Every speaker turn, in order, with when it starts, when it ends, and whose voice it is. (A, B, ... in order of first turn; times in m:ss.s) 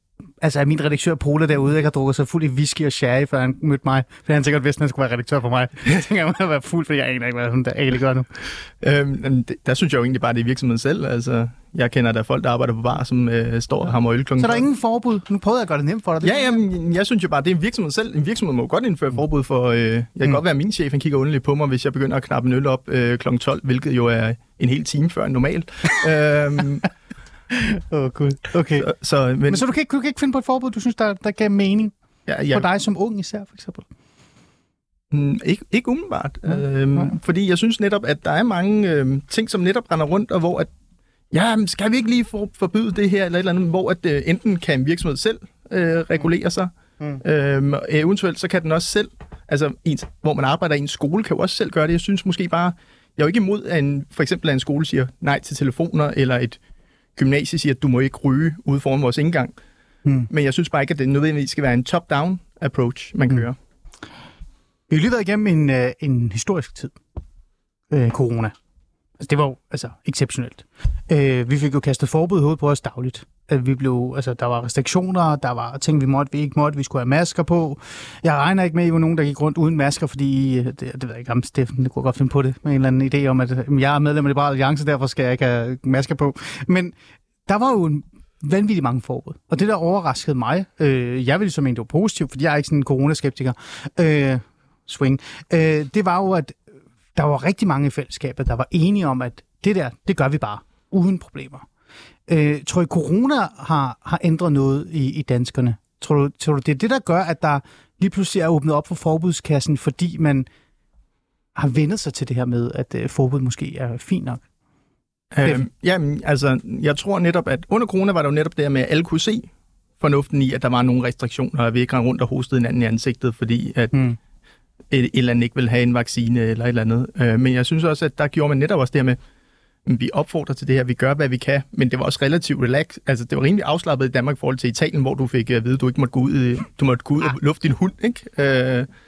0:00.4-0:08.3 A
0:08.8-0:14.6 B
0:14.4-0:16.6 A
0:16.2-0:26.9 B
0:27.5-0:28.9 A
0:28.8-0:29.6 B
0:29.5-0:31.9 A
0:32.3-0:32.6 B
0:32.5-0:33.8 A
0:35.1-0:40.7 B
0:36.5-0:37.2 A
0:41.3-0:56.6 B
0:57.2-0:59.5 B
1:00.3-1:03.6 B
1:04.9-1:07.0 A
1:07.9-1:08.5 A
1:09.2-1:26.9 A
1:27.4-1:36.5 A
1:37.1-1:41.6 A
1:42.3-1:50.5 A
1:51.6-1:54.4 A
1:55.3-1:59.5 B
2:00.0-2:04.0 B
2:04.9-2:09.2 B
2:09.8-2:18.9 B